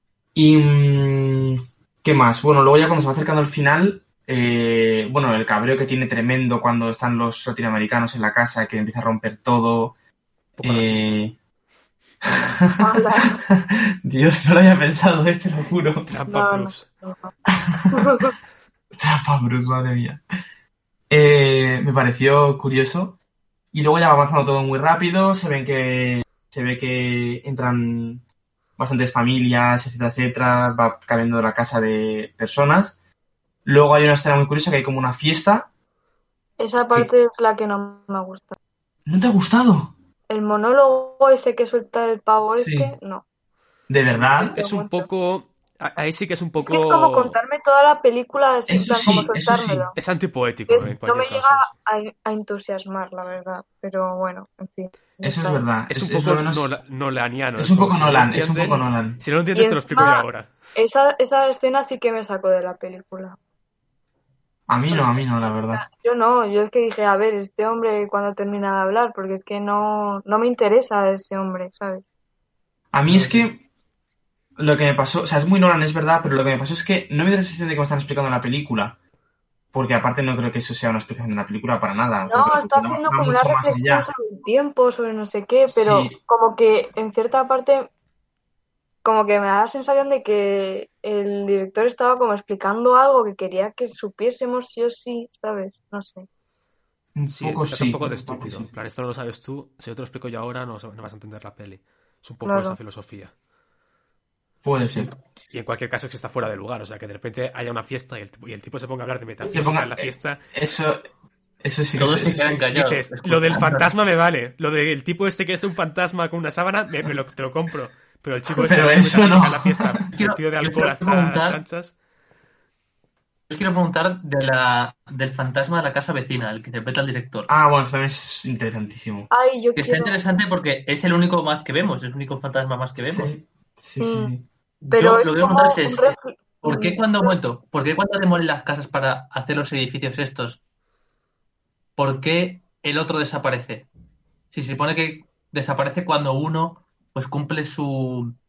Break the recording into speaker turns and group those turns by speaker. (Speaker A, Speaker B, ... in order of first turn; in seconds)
Speaker A: 0.3-9.9, 10.6-11.4, 12.3-16.1, 17.7-18.0, 19.0-20.2, 21.1-23.2, 23.7-28.2, 28.8-33.0, 33.6-35.7, 39.1-39.9, 42.5-43.0, 43.9-44.5, 48.7-49.9, 55.2-56.7, 57.6-59.2, 64.7-65.8, 72.9-73.6, 74.6-79.0, 79.7-84.1, 85.7-86.2, 97.2-98.7, 104.6-105.1, 109.5-111.0, 111.6-112.6, 118.5-120.0, 127.5-129.3, 133.0-134.5
Speaker B: 10.6-11.2, 16.1-16.9, 44.1-47.4, 50.0-51.7, 55.9-60.5, 97.3-103.3, 105.5-110.4, 112.7-122.0
Speaker C: 12.8-13.4, 16.3-17.3, 17.9-18.4, 36.6-38.6, 40.3-43.2, 44.4-45.1, 46.6-50.0, 50.7-55.6, 59.5-63.4, 64.9-72.0, 82.3-87.9, 89.0-96.3, 102.4-102.8, 129.3-130.2, 134.0-134.3, 134.9-137.3
Speaker D: 73.1-73.4, 112.0-114.1, 120.1-121.6, 123.5-127.5, 129.8-133.3, 134.8-140.6, 142.0-143.9, 144.5-148.4